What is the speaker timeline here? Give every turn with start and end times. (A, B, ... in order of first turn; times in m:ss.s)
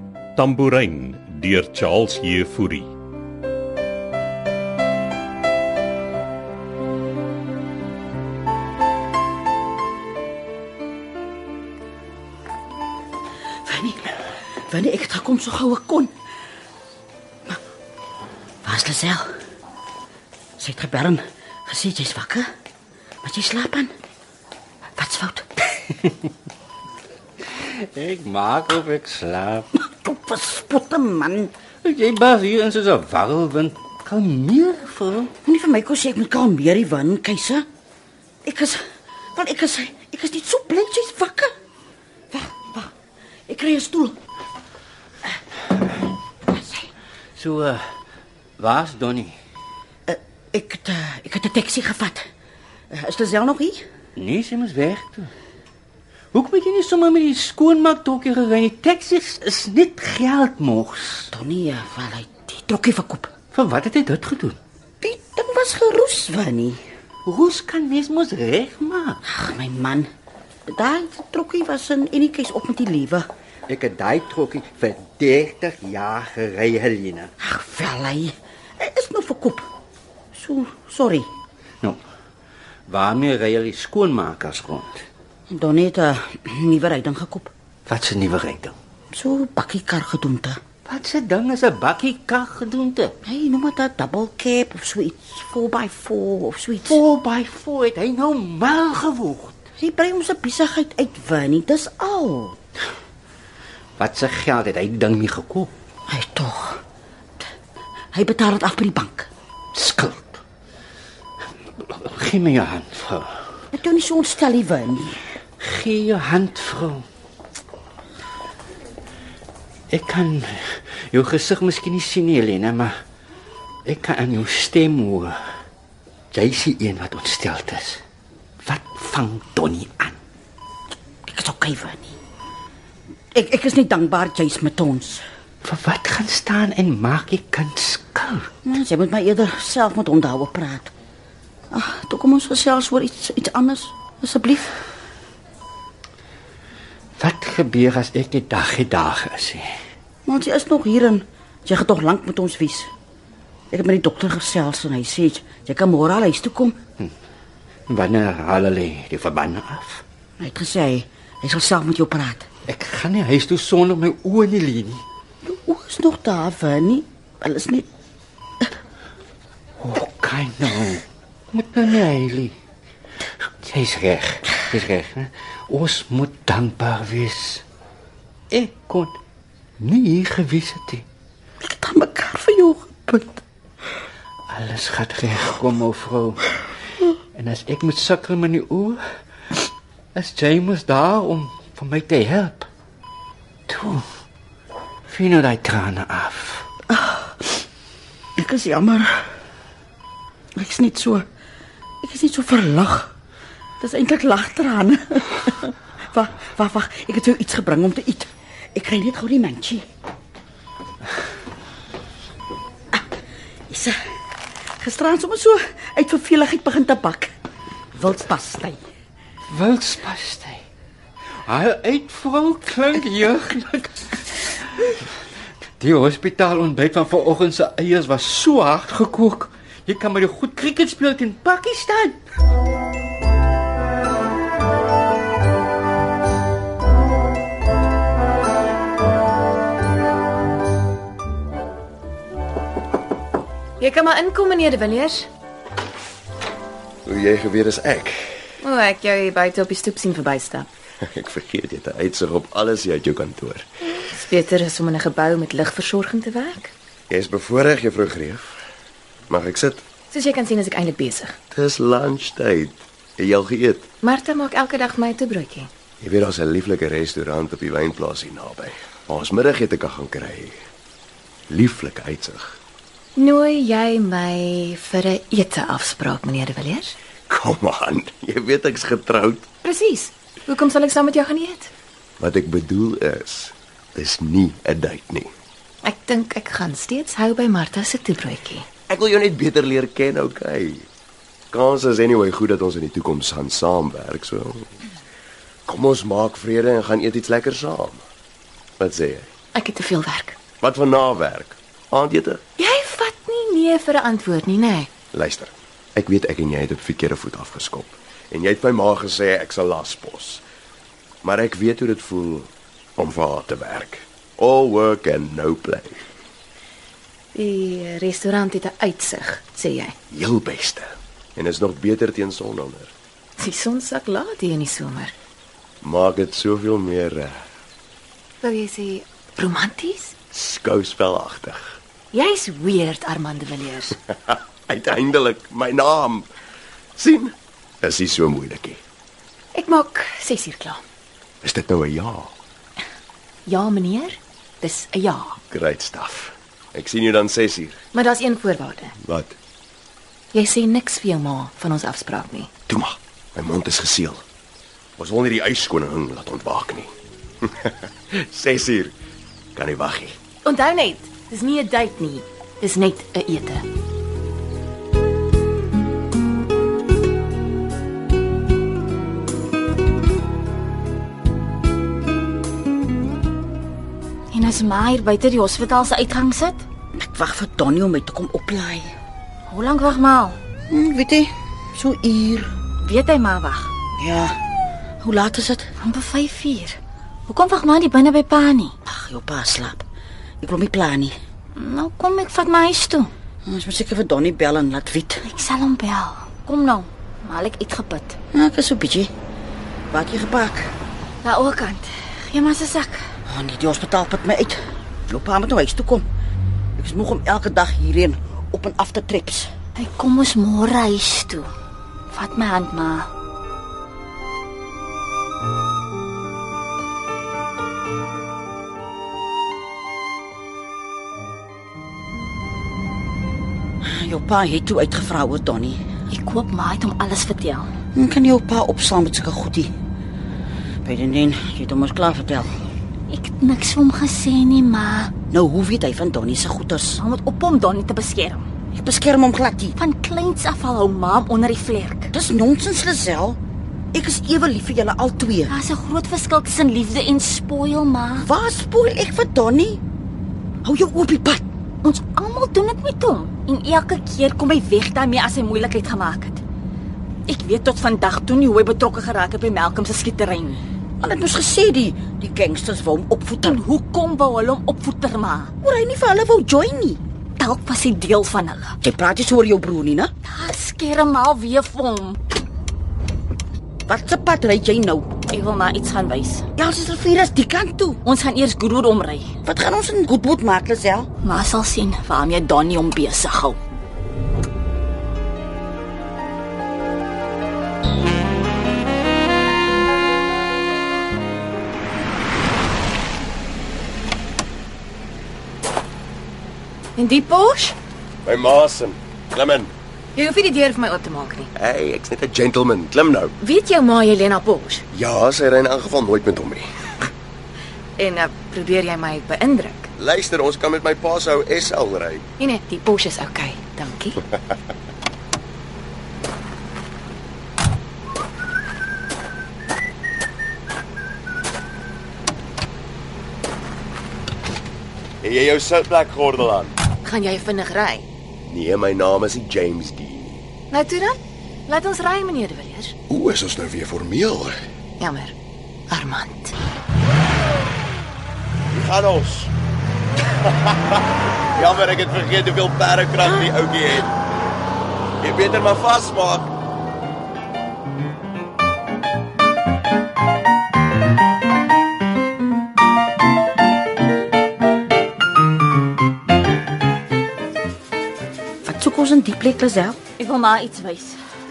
0:00.4-0:02.9 A
0:13.6-0:16.1 B
0:18.6-0:19.3 B
0:20.6-0:22.4 B
0:23.2-0:23.9 B
0:25.0-0:25.9 B
0:27.5-0:29.7 C
0:29.7-0:31.5 B
0:31.8-0:35.3 C
0:35.4-0:37.6 B
0:38.4-0:38.8 B
0:39.3-0:41.5 B
0:42.3-0:42.9 B
0:43.5-0:44.2 B
0:46.5-0:46.9 B
0:47.3-0:47.8 C
0:48.6-0:49.3 C
0:50.1-0:52.2 B
0:52.9-0:53.8 B
0:54.2-0:55.3 C
0:56.3-1:01.3 C
1:01.3-1:03.3 B
1:03.5-1:04.6 C
1:05.0-1:06.8 B
1:07.2-1:09.2 C
1:09.2-1:10.1 B
1:10.7-1:13.2 B
1:13.7-1:17.3 C
1:17.4-1:19.6 B
1:20.3-1:21.3 B
1:22.9-1:25.0 C
1:25.5-1:27.5 B
1:27.8-1:28.7 C
1:29.1-1:30.6 B
1:30.8-1:33.1 C
1:33.2-1:37.0 B
1:36.9-1:39.6 C
1:39.8-1:42.6 B
1:44.0-1:45.7 C
1:46.1-1:46.8 B
1:48.1-1:49.3 B
1:49.7-1:50.4 C
1:51.8-1:53.3 C
1:53.7-1:55.2 B
1:55.6-1:57.0 C
1:59.9-2:02.9 C
2:03.8-2:05.3 C
2:06.3-2:08.0 C
2:08.6-2:10.2 C
2:11.3-2:12.1 B
2:13.3-2:15.2 B
2:15.6-2:18.5 C
2:18.6-2:20.9 B
2:21.7-2:24.7 B
2:27.2-2:29.6 C
2:30.2-2:32.9 B
2:33.7-2:36.8 B
2:37.9-2:40.0 C
2:40.4-2:42.5 B
2:42.7-2:45.0 C
2:45.4-2:47.9 B
2:49.8-2:52.6 C
2:53.6-2:57.6 C
2:58.5-2:59.2 C
2:59.8-3:01.0 C
3:01.6-3:03.4 B
3:04.5-3:06.4 C
3:07.3-3:09.0 C
3:10.1-3:12.7 C
3:13.7-3:14.0 C
3:15.1-3:16.6 C
3:16.9-3:17.4 B
3:18.4-3:19.2 B
3:20.5-3:21.2 B
3:22.0-3:23.1 B
3:23.8-3:29.8 B
3:33.7-3:34.0 B
3:34.8-3:37.3 B
3:37.9-3:38.8 B
3:39.5-3:40.6 C
3:41.4-3:44.4 C
3:45.8-3:52.2 C
4:03.8-4:05.3 D
4:07.0-4:08.4 E
4:08.6-4:10.7 D
4:11.0-4:13.6 E
4:14.0-4:16.7 D
4:17.1-4:18.6 E
4:19.3-4:19.8 E
4:20.1-4:21.4 D
4:21.5-4:23.9 E
4:24.0-4:25.7 D
4:26.0-4:30.6 E
4:31.5-4:32.6 E
4:33.2-4:36.9 D
4:37.3-4:39.5 E
4:39.6-4:41.7 D
4:42.2-4:45.3 E
4:45.8-4:48.7 D
4:48.9-4:50.9 E
4:51.5-4:54.7 E
4:55.7-4:58.0 E
4:58.8-4:59.3 E
4:59.5-5:00.4 D
5:00.6-5:02.4 E
5:02.6-5:04.9 D
5:05.1-5:10.4 E
5:11.2-5:16.0 E
5:17.3-5:19.9 D
5:20.1-5:22.9 E
5:23.4-5:25.1 D
5:25.8-5:27.4 E
5:28.4-5:30.1 D
5:30.3-5:31.8 E
5:32.1-5:34.0 D
5:34.3-5:36.3 E
5:37.0-5:38.8 E
5:39.5-5:40.8 D
5:41.4-5:42.3 E
5:43.4-5:45.4 D
5:45.5-5:47.8 E
5:47.9-5:48.9 D
5:49.0-5:49.4 E
5:50.3-5:52.5 D
5:52.7-5:54.2 E
5:55.0-5:56.9 E
5:57.4-5:58.9 E
5:59.5-6:00.2 E
6:00.4-6:03.6 D
6:14.3-6:16.6 F
6:17.0-6:18.9 B
6:19.5-6:20.4 F
6:20.7-6:22.5 B
6:22.8-6:23.7 F
6:24.0-6:24.3 B
6:25.0-6:25.6 B
6:25.8-6:26.8 F
6:27.3-6:28.7 F
6:28.8-6:29.8 B
6:30.4-6:31.1 B
6:31.5-6:33.1 F
6:33.4-6:35.2 B
6:35.2-6:38.2 F
6:38.3-6:39.1 B
6:39.9-6:40.7 B
6:41.2-6:43.0 F
6:43.2-6:46.0 B
6:46.8-6:49.5 B
6:49.8-6:51.5 F
6:52.1-6:53.1 F
7:03.8-7:05.8 B
7:06.1-7:07.7 F
7:07.9-7:09.7 B
7:10.8-7:12.5 B
7:13.1-7:15.1 F
7:15.3-7:17.0 B
7:17.0-7:18.4 F
7:18.7-7:19.8 B
7:19.8-7:22.1 F
7:22.1-7:23.4 B
7:23.9-7:25.5 B
7:25.5-7:28.3 F
7:28.2-7:29.8 B
7:30.6-7:31.4 B
7:31.8-7:36.4 F
7:37.3-7:40.6 F
7:41.0-7:43.6 B
7:43.4-7:45.5 F
7:45.6-7:47.0 B
7:47.4-7:48.8 F
7:48.8-7:50.1 B
7:50.2-7:52.2 F
7:53.9-7:55.1 B
7:55.3-7:56.5 F
7:56.6-7:58.0 B
7:58.0-7:59.3 F
7:59.4-8:01.1 B
8:01.2-8:03.6 F
8:17.0-8:17.7 D
8:18.2-8:19.7 E
8:20.1-8:21.5 D
8:21.5-8:23.3 E
8:23.4-8:24.8 D
8:24.9-8:26.6 E
8:28.0-8:29.9 D
8:30.0-8:32.2 E
8:32.4-8:34.2 D
8:45.2-8:46.8 E
8:47.0-8:48.1 D
8:48.5-8:50.4 E
8:50.7-8:52.9 D
8:53.1-8:54.5 E
8:55.0-8:55.3 D
8:55.9-8:56.5 D
8:58.7-8:59.5 E
9:00.4-9:04.1 E
9:05.2-9:06.5 E
9:18.6-9:20.0 B
9:20.2-9:21.2 F